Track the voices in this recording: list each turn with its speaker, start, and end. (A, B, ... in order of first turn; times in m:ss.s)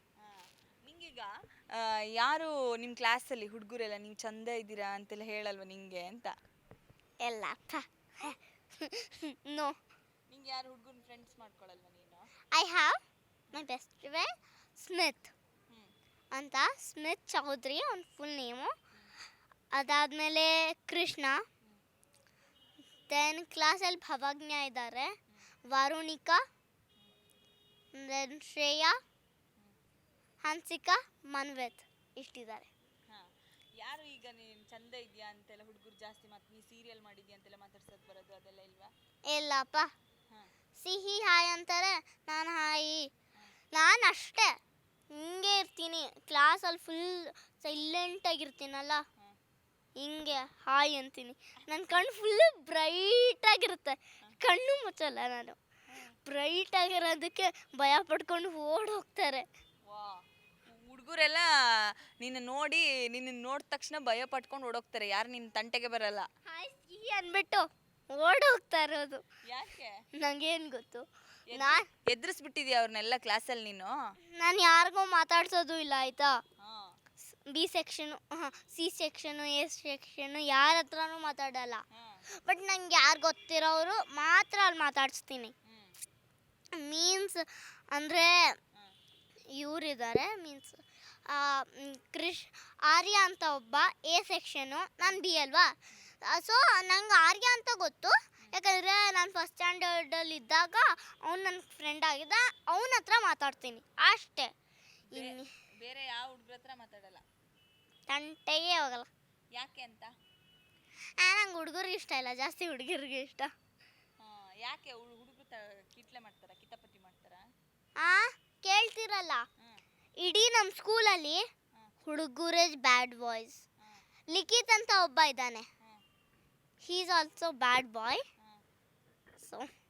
0:00.2-0:06.3 A
0:07.2-0:09.7 B
0:10.3-0:12.2 A
0:12.5-0:13.0 B
0:13.5-0:15.3 B
0:16.3-0:18.7 B
0:19.7-0:21.4 B
0:23.1-0:25.1 B
0:25.7-0:26.4 B
0:27.9-0:29.0 B
0:30.4-0:32.7 B
0:33.8-0:38.9 A
0:39.3-0:39.9 B
0:40.8-0:43.1 B
0:43.7-0:44.5 B
0:45.1-0:49.0 B
0:50.0-0:55.6 B
0:55.9-0:56.2 A
0:56.2-0:59.4 B
0:59.9-1:01.5 A
1:02.2-1:06.3 A
1:06.4-1:09.2 B
1:09.5-1:10.0 A
1:10.2-1:11.8 B
1:11.5-1:13.9 A
1:14.4-1:16.4 B
1:16.6-1:16.9 A
1:17.3-1:21.8 B
1:21.9-1:22.2 A
1:22.4-1:25.5 B
1:25.6-1:25.9 A
1:26.7-1:28.6 B
1:29.6-1:44.5 B
1:45.1-1:47.2 A
1:45.1-1:45.5 B
1:48.1-1:49.1 B
1:49.5-1:50.1 A
1:51.2-1:53.5 B
1:54.2-1:57.4 A
1:58.0-1:59.4 B
2:00.2-2:01.4 B
2:02.0-2:03.6 B
2:04.3-2:05.7 B
2:06.8-2:08.2 B
2:09.4-2:09.7 B